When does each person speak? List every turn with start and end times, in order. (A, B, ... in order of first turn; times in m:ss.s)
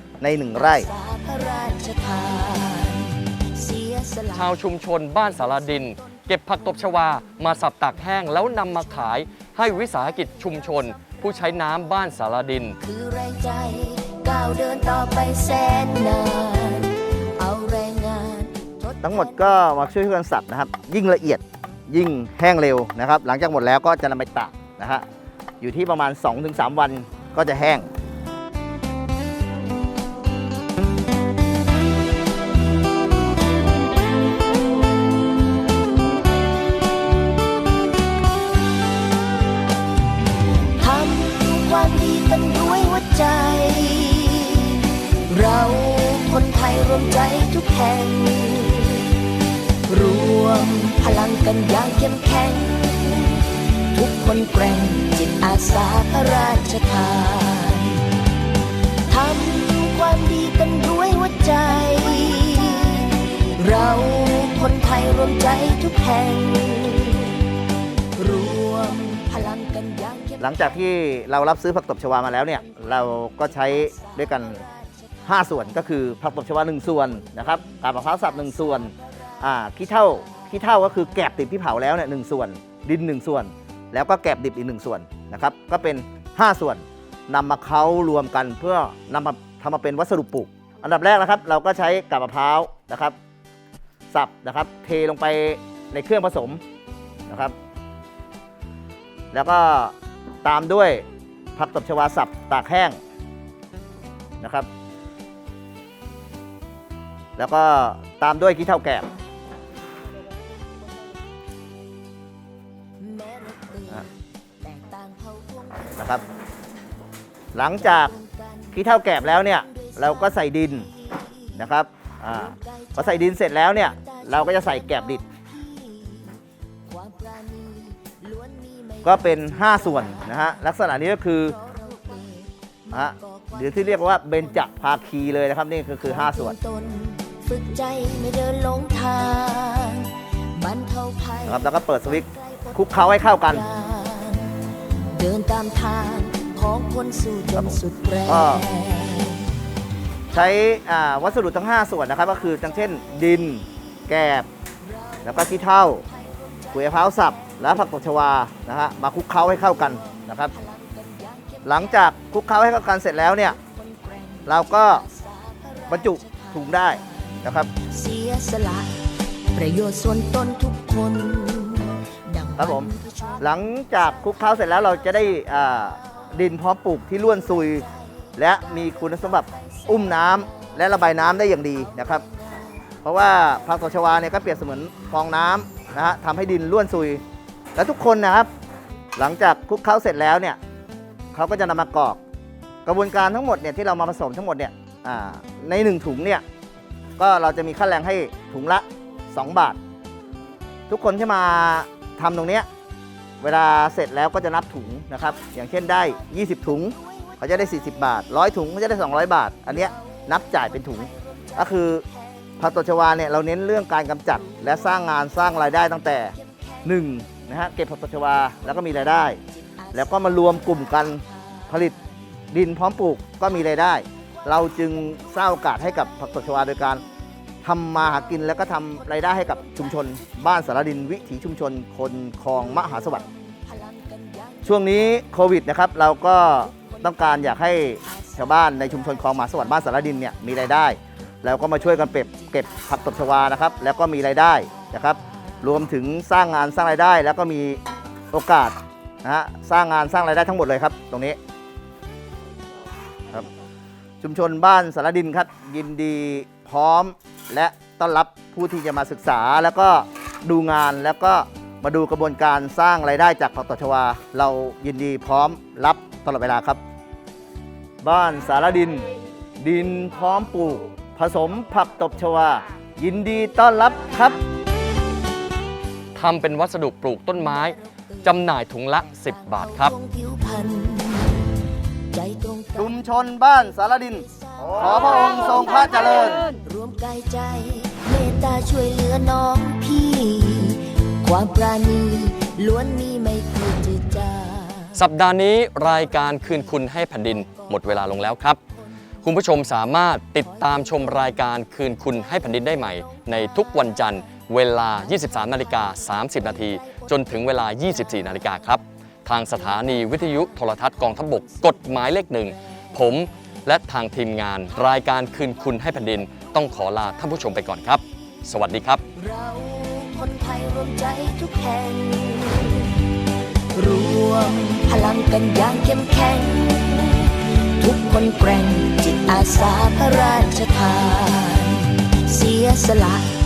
0:00.2-0:00.9 A
0:00.6-0:04.5 B
0:04.3-0:12.8 C
0:12.8-0:19.4 B
0:19.0-0:25.0 A
0:25.6-0:27.9 A
0:40.8-0:49.1 B
0:49.9-0:58.0 B
0:59.1-1:07.4 B
1:08.2-1:10.4 B
1:10.4-1:14.6 A
1:15.3-1:33.2 A
1:34.1-1:36.6 A
1:37.3-1:37.5 A
1:39.3-1:41.0 A
1:41.6-1:43.0 A
1:44.4-1:44.7 A
1:47.4-1:49.1 A
1:53.0-1:54.1 B
1:54.6-1:56.0 B
1:56.0-1:56.2 A
1:57.6-1:58.1 A
1:57.8-2:00.0 B
1:58.7-2:00.9 A
2:01.6-2:05.2 A
2:02.9-2:03.4 B
2:04.0-2:06.4 B
2:06.9-2:10.4 B
2:09.0-2:11.6 A
2:11.6-2:12.5 B
2:12.9-2:16.6 A
2:16.1-2:24.5 B
2:21.5-2:23.6 A
2:25.1-2:29.4 B
2:28.3-2:28.6 A
2:30.3-2:34.5 A
2:35.2-2:36.0 A
2:36.7-2:40.5 A
2:40.7-2:41.6 B
2:41.6-2:43.6 A
2:44.5-2:45.0 A
2:45.0-2:46.5 B
2:45.9-2:47.7 A
2:47.8-2:49.0 B
2:49.6-2:53.4 B
2:52.6-2:52.9 A
2:53.4-2:57.8 A
2:58.4-3:02.2 A
3:03.0-3:07.2 A
3:07.8-3:08.5 A
3:09.2-3:10.6 A
3:11.3-3:12.2 A
3:12.9-3:16.4 A
3:17.2-3:19.8 A
3:20.9-3:22.7 A
3:23.4-3:32.0 A
3:32.6-3:39.4 A
3:39.9-3:42.0 A
3:42.5-3:47.0 A
3:47.6-3:53.2 A
3:54.3-3:54.6 B
3:54.6-4:07.8 A
4:08.3-4:11.4 A
4:14.2-4:26.8 A
4:28.0-4:29.1 A
4:29.6-4:34.4 A
4:36.1-4:39.9 C
4:39.3-4:41.5 B
4:42.1-4:43.0 B
4:42.8-4:46.4 A
4:44.3-4:55.0 B
4:55.0-4:58.6 C
4:59.2-5:19.0 C
5:19.1-5:23.0 B
5:23.7-5:33.3 B